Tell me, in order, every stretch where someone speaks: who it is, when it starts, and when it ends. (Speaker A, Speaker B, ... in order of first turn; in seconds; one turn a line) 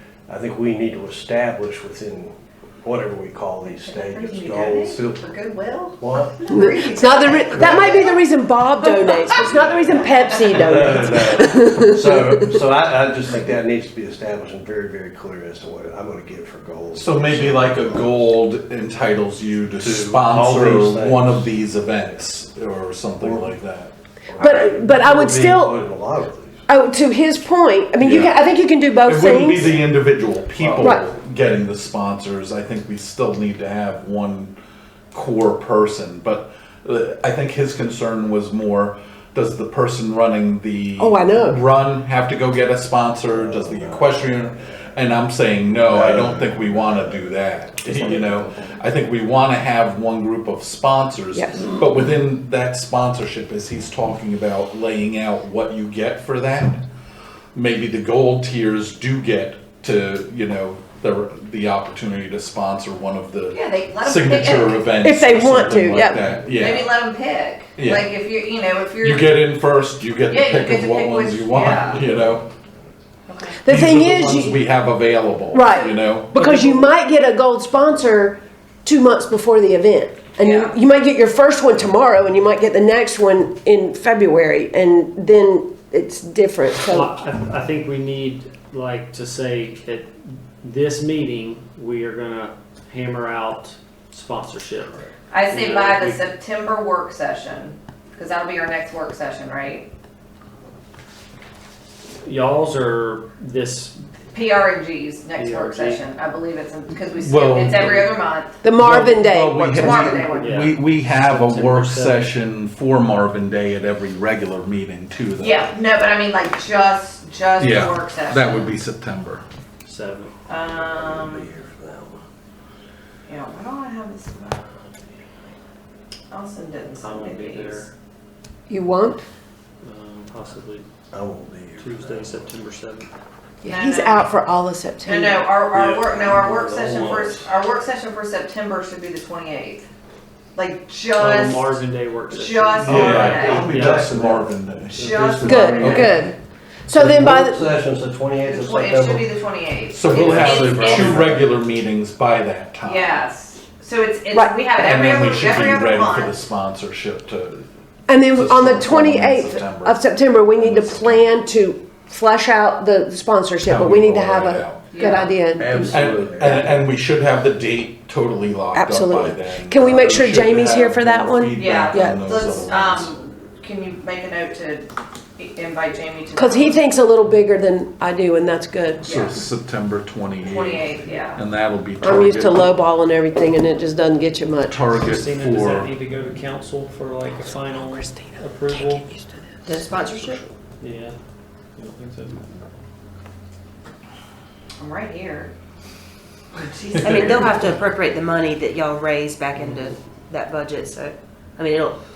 Speaker A: 0.3-5.2
Speaker B: 3.6-8.1
Speaker A: 6.0-6.4
Speaker C: 6.5-12.4
Speaker A: 7.5-7.9
Speaker B: 8.9-9.6
Speaker A: 9.3-18.2
Speaker B: 10.1-10.5
Speaker D: 16.9-23.9
Speaker A: 19.8-21.5
Speaker A: 23.2-23.6
Speaker A: 24.3-26.7
Speaker C: 24.4-25.8
Speaker C: 26.7-29.9
Speaker D: 28.0-28.4
Speaker D: 29.0-34.5
Speaker C: 30.8-31.1
Speaker D: 35.1-56.8
Speaker C: 41.0-41.6
Speaker A: 43.3-44.8
Speaker A: 45.8-48.9
Speaker C: 51.3-51.6
Speaker D: 57.5-67.0
Speaker B: 63.5-64.9
Speaker C: 64.5-66.2
Speaker B: 66.5-69.4
Speaker D: 67.8-68.1
Speaker D: 69.0-72.5
Speaker B: 70.3-72.0
Speaker A: 72.0-72.5
Speaker B: 73.3-73.6
Speaker C: 73.6-74.7
Speaker D: 73.7-76.4
Speaker C: 75.5-87.2
Speaker E: 76.5-76.9
Speaker B: 80.4-80.8
Speaker E: 86.9-96.2
Speaker B: 95.3-99.9
Speaker E: 102.2-104.0
Speaker B: 104.3-108.6
Speaker E: 105.3-106.0
Speaker D: 107.2-108.1
Speaker E: 107.8-108.2
Speaker C: 108.6-110.2
Speaker D: 108.8-115.7
Speaker B: 109.7-110.6
Speaker E: 110.2-112.3
Speaker B: 115.4-118.8
Speaker D: 117.6-119.4
Speaker E: 119.8-120.3
Speaker B: 120.5-121.5
Speaker A: 120.7-122.2
Speaker B: 123.3-124.7
Speaker B: 126.3-127.9
Speaker E: 127.0-127.9
Speaker C: 128.7-129.2
Speaker E: 129.8-130.9
Speaker A: 131.1-132.5
Speaker E: 131.8-133.1
Speaker C: 133.6-135.5
Speaker B: 133.6-134.2
Speaker B: 135.0-139.9
Speaker A: 135.7-137.3
Speaker E: 135.8-137.5
Speaker B: 140.5-141.7
Speaker E: 141.1-143.1
Speaker B: 142.3-143.7
Speaker D: 142.8-146.3
Speaker A: 142.8-146.2
Speaker E: 143.6-144.4
Speaker B: 144.9-146.3
Speaker C: 145.4-146.3
Speaker C: 146.9-147.7
Speaker A: 146.9-149.3
Speaker B: 148.4-151.3
Speaker D: 149.9-153.2
Speaker A: 150.0-151.5
Speaker B: 152.8-156.3
Speaker C: 154.3-154.7
Speaker D: 154.7-157.7
Speaker C: 158.1-166.6
Speaker D: 158.2-161.3
Speaker D: 163.6-164.9
Speaker B: 164.9-165.3
Speaker A: 165.6-166.9
Speaker D: 165.9-173.1
Speaker C: 168.7-172.5
Speaker B: 171.5-176.8
Speaker C: 176.3-179.1
Speaker D: 179.0-182.8
Speaker B: 179.0-179.4
Speaker B: 180.4-181.4
Speaker C: 182.0-184.8
Speaker D: 184.7-185.9
Speaker E: 184.9-189.1
Speaker C: 187.7-189.3
Speaker F: 189.6-190.4
Speaker E: 190.8-191.2
Speaker E: 191.8-192.4
Speaker B: 194.8-195.5
Speaker B: 196.5-197.6
Speaker F: 196.9-202.0
Speaker D: 197.2-197.5